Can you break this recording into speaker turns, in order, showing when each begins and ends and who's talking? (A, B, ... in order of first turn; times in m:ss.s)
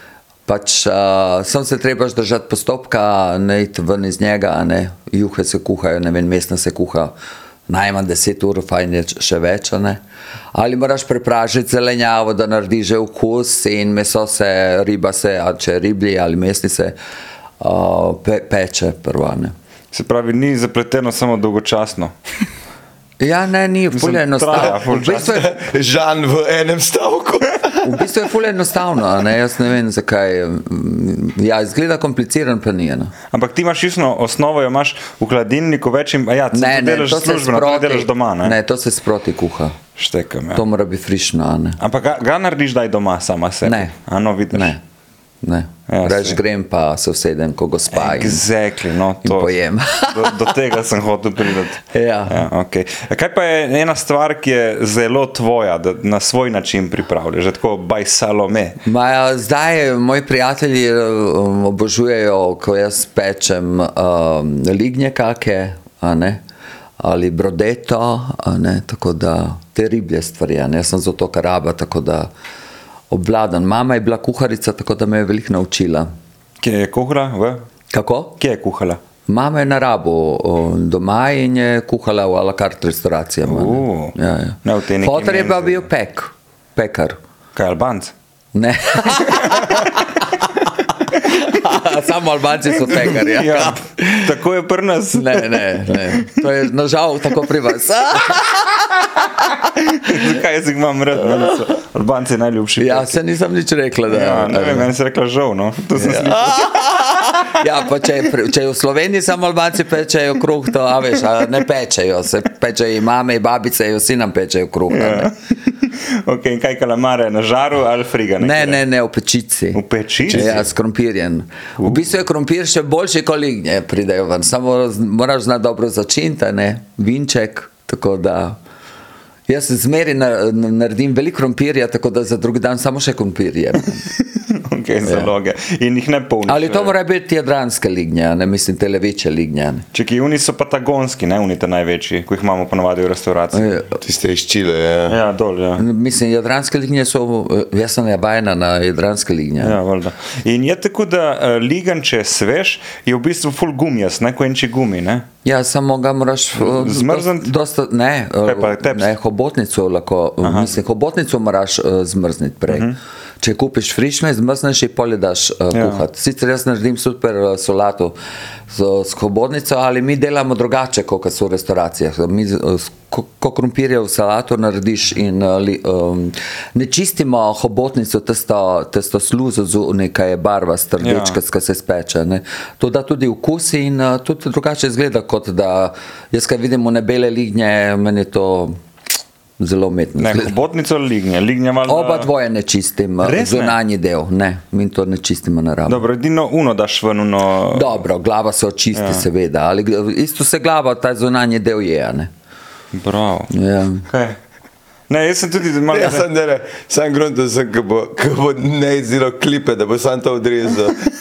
0:00.5-0:07.1 A
0:07.7-0:10.0 A
0:10.5-0:16.9 A
0:17.6-0:19.5 A
0:19.9-0:22.1 B
0:23.2-0:25.6 A
0:23.9-0:25.4 B
0:24.6-0:27.8 C
0:27.8-0:33.1 A
0:33.3-0:38.6 B
0:36.5-0:39.8 A
0:40.0-0:40.6 B
0:40.5-0:41.8 A
0:41.8-0:44.7 B
0:43.6-0:43.9 A
0:44.5-0:44.8 A
0:45.4-0:48.4 A
0:45.9-0:46.4 B
0:47.9-0:58.8 B
0:49.2-0:50.5 A
0:51.8-0:52.4 A
0:58.8-1:06.4 A
1:07.0-1:12.3 A
1:13.1-1:16.1 A
1:16.6-1:17.6 B
1:17.9-1:18.4 A
1:18.4-1:19.0 B
1:19.3-1:27.2 A
1:23.4-1:25.8 B
1:27.5-1:28.1 B
1:28.5-1:34.3 A
1:29.2-1:29.9 B
1:32.8-1:36.4 B
1:35.1-1:39.1 A
1:39.6-1:43.2 B
1:41.2-1:41.6 A
1:42.8-1:44.9 A
1:44.1-1:47.7 B
1:45.9-1:55.3 A
1:54.9-1:58.8 B
1:58.4-2:08.6 A
1:59.7-2:00.6 B
2:00.3-2:00.6 C
2:01.8-2:02.1 B
2:09.5-2:14.0 A
2:14.3-2:16.9 B
2:15.0-2:15.3 A
2:16.4-2:19.8 A
2:19.9-2:23.8 B
2:23.5-2:24.0 A
2:24.0-2:25.2 C
2:25.1-2:25.8 B
2:25.8-2:29.8 A
2:29.6-2:35.2 B
2:35.4-2:42.9 A
2:36.6-2:37.5 B
2:38.4-2:39.1 B
2:40.4-2:40.7 B
2:42.7-2:43.0 B
2:43.4-2:48.1 A
2:45.7-2:46.0 B
2:48.7-3:08.8 A
3:01.0-3:01.4 B
3:09.6-3:10.5 A
3:10.2-3:12.3 B
3:11.8-3:16.0 A
3:13.2-3:13.8 B
3:15.9-3:18.0 B
3:17.7-3:22.3 A
3:18.9-3:19.2 B
3:22.9-3:23.5 B
3:23.5-3:24.1 A
3:24.1-3:24.4 B
3:25.1-3:26.3 B
3:25.9-3:31.0 C